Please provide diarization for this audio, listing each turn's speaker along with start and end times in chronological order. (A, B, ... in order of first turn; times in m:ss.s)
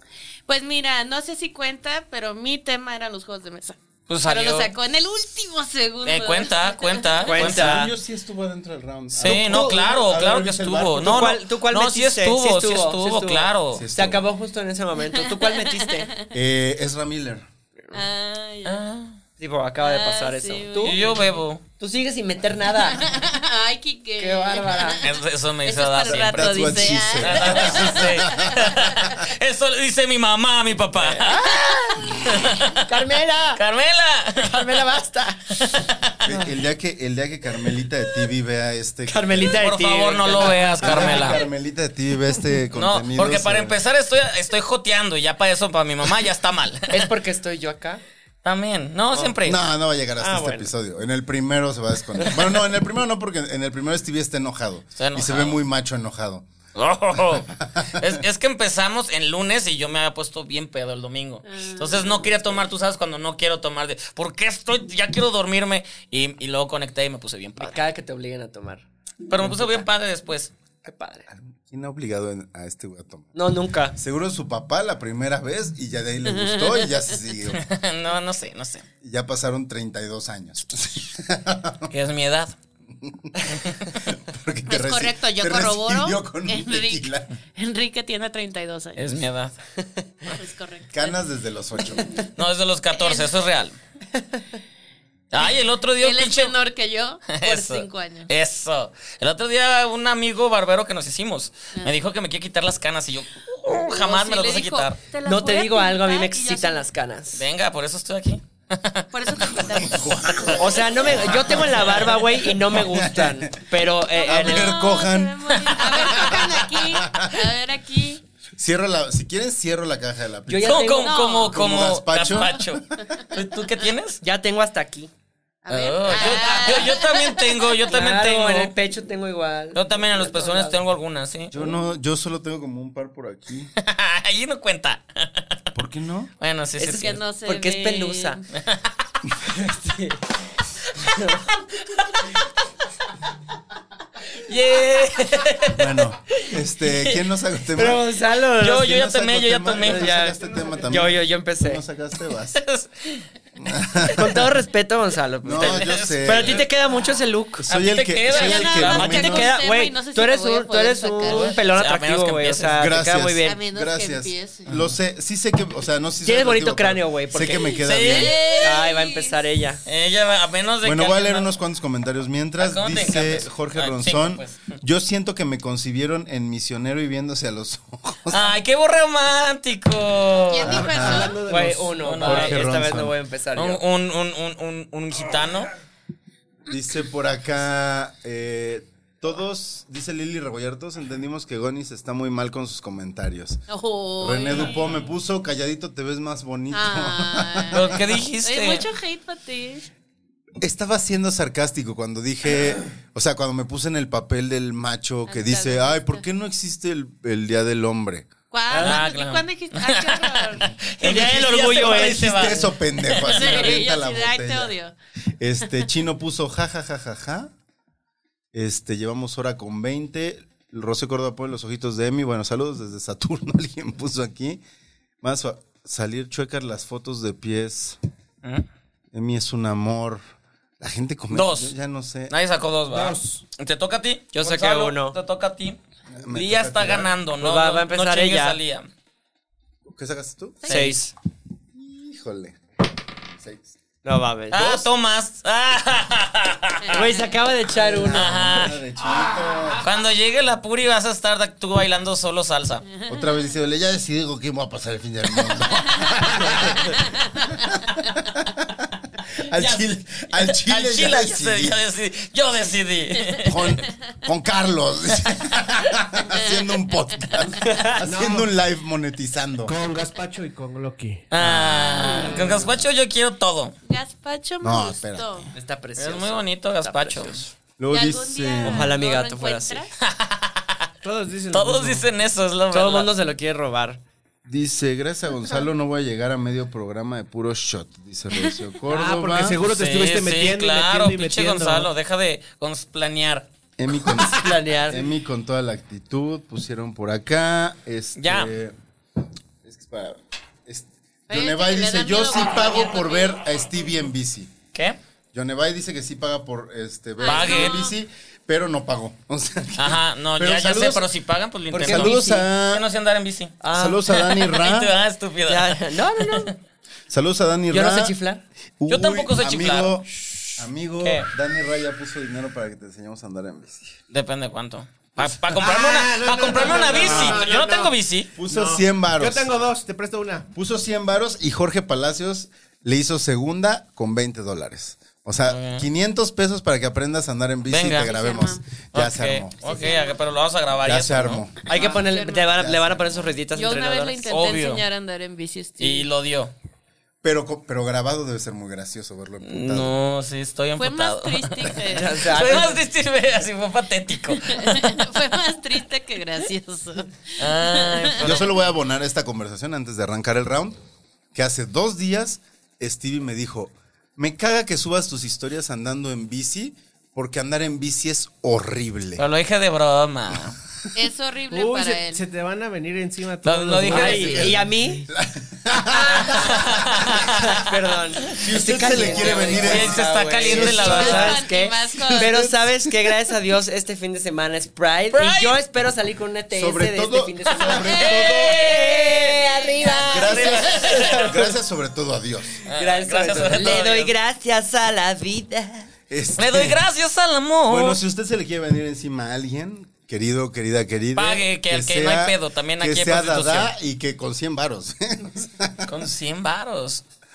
0:00.5-0:07.5 A
0:04.1-0:04.7 B
0:06.0-0:07.9 B
0:07.3-0:07.9 C
0:07.4-0:11.4 D
0:09.2-0:13.8 B
0:09.2-0:09.7 C
0:11.0-0:16.1 C
0:13.8-0:14.2 D
0:15.0-0:16.3 A
0:16.3-0:17.5 D
0:17.9-0:18.8 A
0:18.6-0:19.2 B
0:19.4-0:21.0 C
0:19.8-0:21.4 A
0:20.8-0:21.6 B
0:21.8-0:23.0 C
0:22.8-0:25.1 A
0:24.2-0:25.0 C
0:25.0-0:32.8 B
0:25.6-0:29.2 A
0:26.1-0:28.9 D
0:31.0-0:33.6 C
0:33.6-0:34.9 B
0:34.4-0:35.7 C
0:35.5-0:36.2 B
0:36.2-0:39.6 D
0:39.1-0:41.4 C
0:39.5-0:41.4 B
0:40.8-0:43.8 D
0:42.7-0:47.1 B
0:46.9-0:48.0 C
0:48.4-0:49.6 B
0:49.1-0:56.5 D
0:50.2-0:50.7 C
0:55.0-0:55.6 B
0:56.8-1:07.8 B
0:57.4-0:58.2 D
1:01.5-1:02.3 A
1:07.6-1:08.8 C
1:09.3-1:10.5 B
1:09.4-1:09.9 C
1:10.8-1:11.3 C
1:11.3-1:13.3 D
1:13.4-1:14.0 C
1:13.9-1:17.6 D
1:16.3-1:17.0 A
1:17.5-1:18.8 B
1:19.0-1:21.9 D
1:21.9-1:22.6 B
1:22.9-1:27.4 D
1:23.7-1:24.0 B
1:24.7-1:29.0 A
1:29.0-1:29.6 B
1:30.3-1:31.2 A
1:30.9-1:32.2 D
1:32.4-1:33.8 B
1:32.9-1:33.3 A
1:35.3-1:36.6 B
1:35.4-1:38.3 A
1:37.3-1:45.0 B
1:43.7-1:46.9 A
1:45.2-1:47.5 C
1:47.4-1:49.5 B
1:49.1-1:50.7 A
1:49.4-1:52.0 D
1:50.6-1:54.9 C
1:52.7-1:53.7 D
1:54.1-1:58.2 A
1:54.2-1:57.4 D
1:55.6-1:56.1 B
1:58.6-2:00.9 D
2:00.5-2:01.2 C
2:00.6-2:04.2 B
2:00.9-2:01.6 A
2:01.5-2:02.8 D
2:02.3-2:02.6 A
2:04.2-2:05.1 C
2:05.7-2:08.0 A
2:05.7-2:08.7 B
2:06.2-2:06.7 D
2:07.9-2:10.8 C
2:09.7-2:11.5 B
2:11.5-2:13.7 D
2:13.8-2:15.6 B
2:15.8-2:16.3 D
2:16.4-2:17.2 B
2:16.8-2:18.4 C
2:16.9-2:18.4 A
2:18.5-2:18.9 B
2:19.4-2:20.2 C
2:21.0-2:21.5 C
2:21.6-2:22.3 B
2:24.4-2:26.1 B
2:25.7-2:28.0 D
2:26.9-2:27.2 B
2:27.8-2:28.9 C
2:28.6-2:30.1 B
2:28.7-2:32.6 D
2:29.8-2:31.8 C
2:32.6-2:33.2 B
2:33.6-2:34.5 D
2:34.1-2:37.7 C
2:35.4-2:36.6 D
2:35.5-2:36.6 B
2:37.6-2:39.5 D
2:37.7-2:39.3 B
2:38.3-2:41.6 A
2:38.9-2:43.6 C
2:41.2-2:42.8 B
2:42.8-2:48.4 D
2:43.4-2:44.8 A
2:46.2-2:47.8 C
2:47.5-2:49.4 A
2:47.7-2:48.7 B
2:48.6-2:49.8 C
2:49.9-2:51.5 B
2:50.8-2:58.5 D
2:52.6-2:54.5 B
2:58.3-3:00.9 B
3:00.5-3:01.4 A
3:00.6-3:01.4 D
3:00.7-3:02.2 E
3:01.5-3:03.8 C
3:02.0-3:02.8 B
3:02.2-3:03.2 D
3:03.6-3:05.7 B
3:06.7-3:13.6 D
3:13.7-3:15.0 A
3:14.2-3:18.0 D
3:14.5-3:14.9 B
3:16.7-3:19.9 A
3:17.7-3:18.9 B
3:20.6-3:28.3 D
3:25.3-3:26.2 A
3:28.5-3:30.7 A
3:28.7-3:29.0 C
3:28.8-3:33.8 B
3:31.0-3:32.6 C
3:31.1-3:34.7 D
3:33.2-3:34.9 A
3:35.4-3:37.5 D
3:38.5-3:44.6 D
3:45.2-3:48.0 D
3:49.1-3:50.2 D
3:50.8-3:52.3 D
3:51.3-3:51.7 B
3:52.3-3:55.8 B
3:52.9-3:53.4 E
3:54.3-3:55.2 C
3:56.1-3:57.1 D
3:56.3-3:58.9 B
3:57.4-3:58.6 C
3:59.9-4:00.7 D
4:00.6-4:00.9 A
4:00.7-4:01.1 C
4:00.7-4:01.0 B
4:01.7-4:02.6 D
4:03.3-4:03.8 D
4:04.0-4:04.8 C
4:04.5-4:07.1 B
4:06.8-4:07.3 A
4:06.9-4:08.7 C
4:07.7-4:09.8 D
4:08.1-4:08.8 B
4:09.8-4:12.8 B
4:12.9-4:13.3 A
4:13.1-4:17.0 D
4:15.9-4:18.0 A
4:17.5-4:21.8 D
4:19.6-4:23.8 B
4:23.2-4:23.9 A
4:23.4-4:29.7 D
4:26.2-4:27.6 A
4:27.6-4:28.0 C
4:28.0-4:28.5 E
4:29.6-4:31.2 E
4:31.3-4:33.8 B
4:31.4-4:32.6 A
4:32.3-4:32.8 D
4:33.8-4:35.5 A
4:34.6-4:35.5 D
4:35.5-4:37.5 C
4:36.0-4:37.4 B
4:37.8-4:39.0 D
4:37.9-4:39.9 A
4:38.6-4:39.8 C
4:40.0-4:40.9 B
4:41.0-4:42.1 E
4:41.5-4:43.1 B
4:42.7-4:44.0 C
4:44.4-4:49.6 D
4:48.9-4:51.9 E
4:49.7-4:53.5 B
4:53.8-4:58.8 D
4:54.3-4:55.1 C
4:58.2-4:58.5 B
4:59.6-5:04.5 D
5:01.3-5:03.4 A
5:05.3-5:11.1 D
5:07.2-5:08.0 A
5:07.2-5:07.9 B
5:09.8-5:13.6 B
5:11.7-5:12.4 C
5:11.8-5:12.8 D
5:13.6-5:14.0 C
5:13.7-5:14.9 D
5:14.1-5:16.5 B
5:15.5-5:16.6 C
5:17.1-5:18.2 D
5:17.7-5:18.4 C
5:18.8-5:24.0 D
5:18.9-5:20.6 B
5:24.1-5:28.3 B
5:25.5-5:27.9 E
5:26.8-5:27.5 D
5:28.4-5:29.5 D
5:28.5-5:30.5 E
5:30.5-5:39.6 D
5:35.5-5:35.9 B
5:37.7-5:38.1 B
5:38.0-5:38.6 A
5:38.9-5:41.5 B
5:39.6-5:40.2 A
5:40.8-5:43.4 D
5:41.7-5:44.3 C
5:41.7-5:42.6 A
5:43.5-5:46.1 A
5:44.3-5:44.8 B
5:45.8-5:46.5 B
5:47.2-5:50.0 D
5:49.4-5:55.0 B
5:50.8-5:52.8 A
5:51.9-5:52.8 C
5:54.4-5:58.4 A
5:57.4-5:58.5 B
5:58.2-6:00.8 D
6:01.3-6:09.2 D
6:09.2-6:10.6 B
6:10.9-6:12.2 A
6:11.5-6:14.6 E
6:13.4-6:14.6 B
6:13.9-6:15.1 C
6:14.0-6:17.3 D
6:16.1-6:17.6 B
6:17.2-6:31.5 C
6:18.3-6:21.4 D
6:19.0-6:21.4 B
6:20.6-6:22.4 A
6:22.1-6:23.1 D
6:25.1-6:25.6 B
6:26.5-6:28.6 D
6:27.6-6:31.1 A
6:27.6-6:31.5 B
6:30.0-6:32.6 D
6:32.7-6:34.1 B
6:32.7-6:35.9 C
6:36.1-6:36.8 D
6:36.4-6:38.0 B
6:37.7-6:45.9 D
6:41.2-6:43.7 B
6:45.9-6:47.0 B